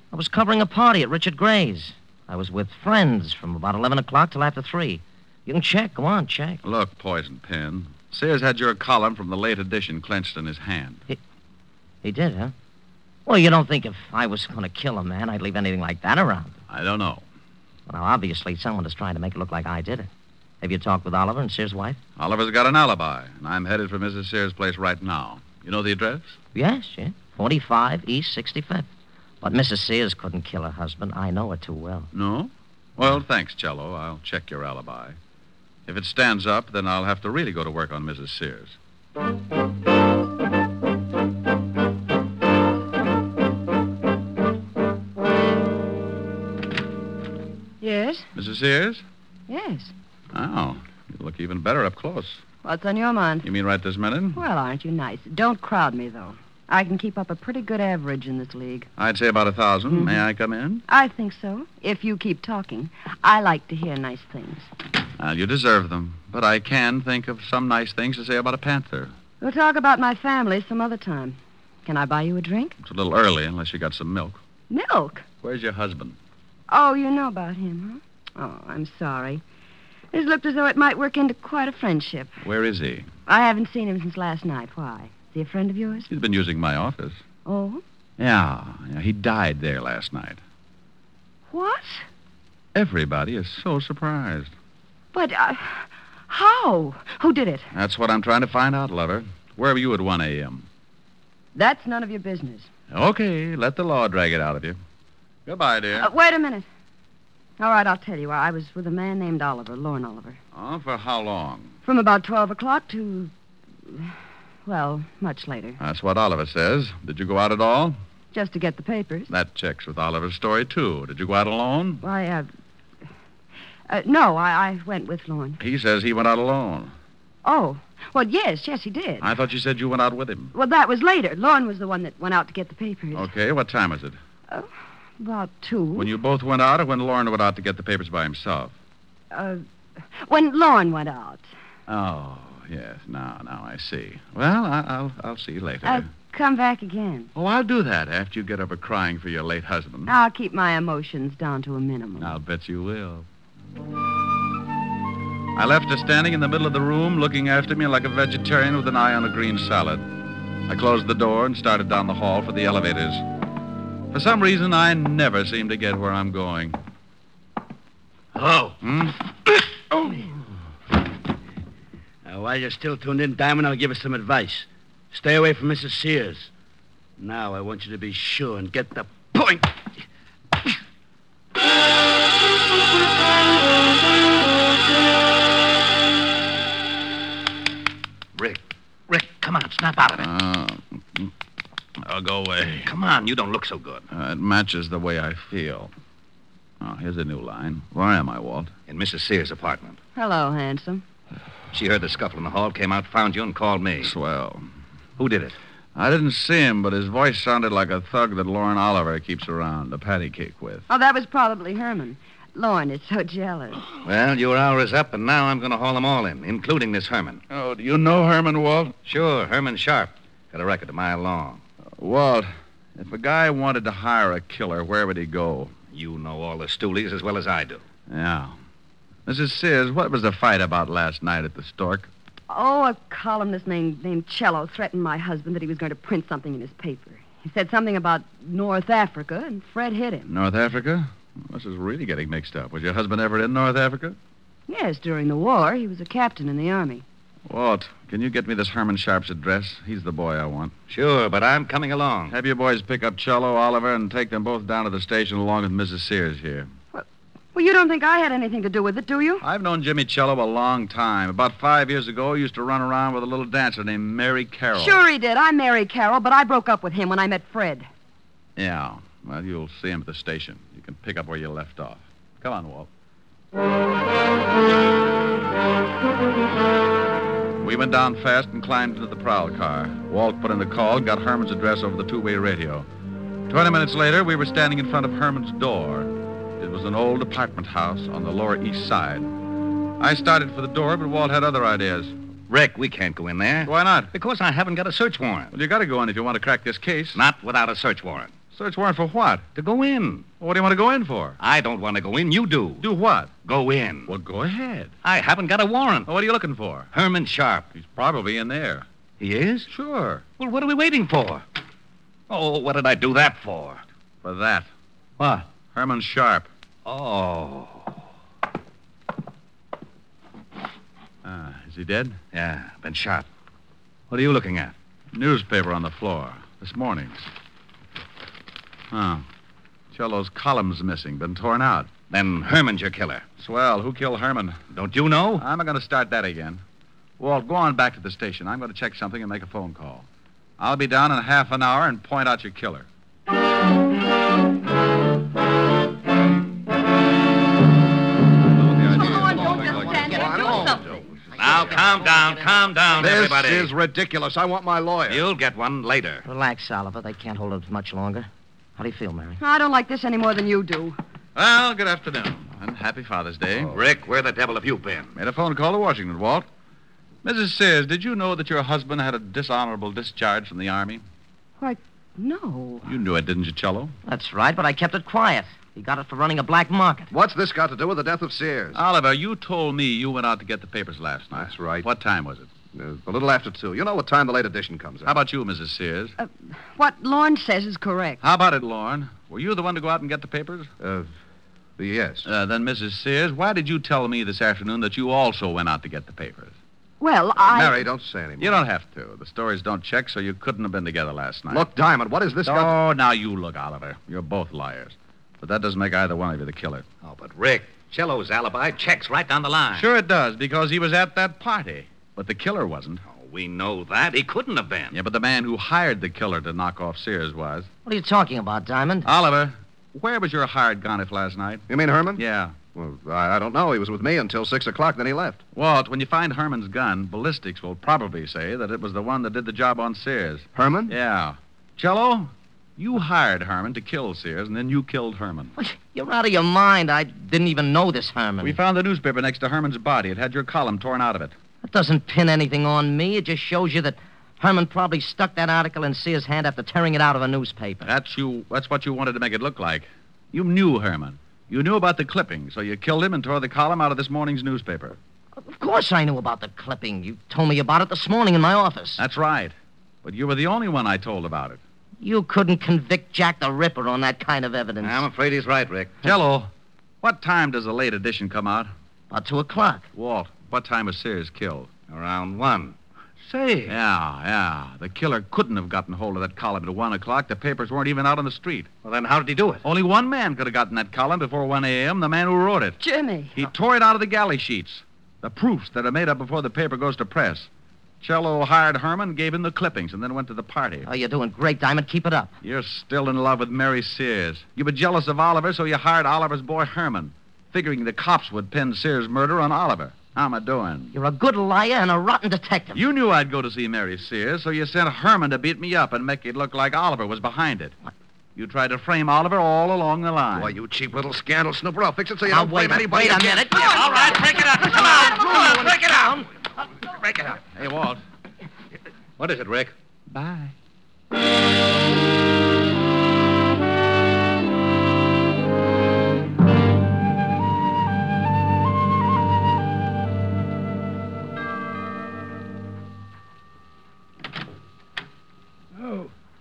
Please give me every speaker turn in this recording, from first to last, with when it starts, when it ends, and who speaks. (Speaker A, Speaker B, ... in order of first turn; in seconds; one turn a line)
Speaker A: 0.1-6.6
Speaker B: 6.6-11.0
Speaker A: 12.0-12.5
Speaker A: 13.2-16.5
Speaker B: 16.7-17.2
Speaker A: 17.9-20.1
Speaker A: 20.6-22.0
Speaker B: 22.2-26.4
Speaker A: 26.5-28.9
Speaker A: 29.4-32.1
Speaker B: 32.1-35.2
Speaker B: 35.9-38.8
Speaker C: 47.8-48.3
Speaker B: 48.3-49.0
Speaker C: 49.5-49.9
Speaker B: 50.3-52.4
Speaker C: 52.6-53.5
Speaker B: 53.4-54.4
Speaker C: 54.3-58.9
Speaker B: 59.0-60.8
Speaker C: 59.9-60.2
Speaker C: 60.9-64.7
Speaker B: 65.2-69.1
Speaker C: 69.4-72.8
Speaker B: 72.8-74.4
Speaker C: 74.7-75.2
Speaker B: 75.4-76.2
Speaker C: 76.7-79.4
Speaker C: 80.1-82.3
Speaker B: 82.4-83.1
Speaker C: 83.3-86.1
Speaker B: 86.1-87.2
Speaker C: 87.4-87.8
Speaker B: 88.2-90.4
Speaker C: 91.5-92.0
Speaker B: 92.7-94.5
Speaker C: 95.1-97.7
Speaker B: 97.7-100.7
Speaker C: 101.5-102.7
Speaker B: 102.9-104.8
Speaker B: 105.5-106.1
Speaker C: 105.9-106.7
Speaker C: 107.6-110.4
Speaker B: 110.5-111.7
Speaker C: 111.8-113.3
Speaker C: 114.7-115.8
Speaker B: 115.8-118.0
Speaker C: 118.3-119.3
Speaker B: 119.3-122.0
Speaker C: 122.0-122.5
Speaker C: 123.9-125.6
Speaker B: 125.6-126.9
Speaker C: 127.4-129.3
Speaker B: 129.2-130.5
Speaker C: 130.5-133.3
Speaker B: 133.1-134.2
Speaker C: 134.5-136.1
Speaker B: 135.9-138.7
Speaker C: 139.3-139.6
Speaker C: 140.1-141.4
Speaker B: 141.9-146.1
Speaker C: 145.8-147.3
Speaker B: 147.3-150.1
Speaker C: 150.1-152.3
Speaker B: 152.2-153.2
Speaker B: 155.5-160.1
Speaker B: 160.7-163.2
Speaker B: 164.1-166.8
Speaker D: 168.3-168.8
Speaker B: 168.8-169.2
Speaker D: 172.2-176.5
Speaker D: 177.2-180.0
Speaker E: 188.3-190.3
Speaker B: 190.2-191.3
Speaker B: 192.0-192.9
Speaker E: 192.8-194.1
Speaker B: 194.1-195.9
Speaker B: 196.8-198.7
Speaker E: 198.9-200.0
Speaker C: 200.1-201.0
Speaker E: 201.7-204.1
Speaker B: 204.0-204.6
Speaker E: 205.2-205.5
Speaker B: 205.9-210.8
Speaker C: 210.9-213.8
Speaker E: 214.0-217.4
Speaker B: 217.5-218.9
Speaker E: 219.1-221.6
Speaker B: 222.0-225.7
Speaker E: 225.9-227.8
Speaker B: 228.1-228.5
Speaker B: 229.2-232.1
Speaker C: 232.5-240.3
Speaker B: 240.3-244.2
Speaker C: 244.7-247.0
Speaker B: 247.5-250.7
Speaker E: 250.9-252.3
Speaker B: 252.3-256.7
Speaker C: 256.9-259.4
Speaker B: 259.4-265.0
Speaker C: 264.7-267.9
Speaker B: 268.6-272.9
Speaker B: 277.6-282.9
Speaker B: 283.5-289.3
Speaker B: 290.0-292.1
Speaker E: 292.5-295.5
Speaker B: 293.6-294.1
Speaker B: 295.5-297.2
Speaker E: 297.1-298.4
Speaker B: 298.5-299.4
Speaker E: 299.5-300.3
Speaker B: 300.4-301.4
Speaker E: 301.4-302.9
Speaker B: 302.8-303.3
Speaker E: 303.4-304.1
Speaker B: 304.1-304.9
Speaker E: 305.0-306.1
Speaker B: 306.1-306.9
Speaker E: 306.9-307.7
Speaker B: 307.7-308.9
Speaker E: 309.2-309.7
Speaker B: 309.7-310.2
Speaker E: 310.4-311.4
Speaker E: 312.3-313.8
Speaker B: 314.2-314.7
Speaker E: 315.2-315.5
Speaker B: 315.5-316.5
Speaker E: 316.8-318.0
Speaker B: 321.2-322.2
Speaker E: 322.3-323.2
Speaker E: 324.1-324.7
Speaker B: 325.1-327.2
Speaker B: 328.9-329.2
Speaker B: 329.9-331.9
Speaker E: 332.1-333.3
Speaker B: 333.4-334.6
Speaker E: 334.7-335.4
Speaker B: 335.4-336.6
Speaker B: 337.2-340.1
Speaker B: 340.6-342.9
Speaker F: 348.5-351.1
Speaker C: 348.9-351.0
Speaker A: 349.2-351.7
Speaker E: 351.3-353.7
Speaker F: 353.0-355.2
Speaker E: 355.1-356.2
Speaker A: 356.2-359.4
Speaker C: 359.4-361.0
Speaker B: 361.4-363.7
Speaker E: 363.6-365.1
Speaker B: 365.1-366.5
Speaker B: 367.2-371.0
Speaker C: 371.6-372.9
Speaker B: 372.8-373.9
Speaker A: 374.1-377.1
Speaker F: 377.1-378.8
Speaker B: 378.7-382.5
Speaker F: 381.3-381.9
Speaker F: 382.7-385.1
Speaker B: 385.0-386.1
Speaker C: 386.2-388.2
Speaker B: 388.2-390.7
Speaker F: 390.8-391.1
Speaker F: 391.8-392.3
Speaker B: 392.2-396.5
Speaker C: 397.0-397.9
Speaker F: 397.4-398.6
Speaker B: 398.4-401.7
Speaker F: 401.5-402.8
Speaker B: 402.4-406.8
Speaker E: 407.0-409.9
Speaker B: 409.7-413.0
Speaker E: 413.0-414.9
Speaker B: 414.9-417.7
Speaker A: 417.8-419.1
Speaker B: 419.0-421.6
Speaker F: 421.7-422.2
Speaker B: 422.2-422.6
Speaker F: 422.7-425.4
Speaker B: 425.5-435.5
Speaker F: 430.5-431.0
Speaker A: 435.6-438.6
Speaker B: 438.4-441.3
Speaker A: 441.6-447.9
Speaker B: 447.8-455.0
Speaker A: 455.4-459.0
Speaker B: 459.0-461.6
Speaker A: 462.0-465.1
Speaker E: 464.8-466.1
Speaker B: 466.0-468.7
Speaker A: 469.1-469.9
Speaker B: 469.9-471.7
Speaker E: 471.9-473.8
Speaker B: 473.7-478.7
Speaker E: 478.8-479.6
Speaker B: 479.6-482.8
Speaker C: 482.8-483.4
Speaker B: 483.3-487.5
Speaker B: 488.0-490.9
Speaker A: 490.8-492.3
Speaker B: 492.4-500.9
Speaker A: 500.9-502.8
Speaker B: 502.7-507.8
Speaker B: 508.4-510.5
Speaker F: 510.3-513.6
Speaker A: 512.3-516.2
Speaker E: 513.5-516.2
Speaker E: 517.0-517.4
Speaker B: 517.5-518.0
Speaker E: 519.2-519.7
Speaker B: 520.1-520.5
Speaker D: 535.7-536.1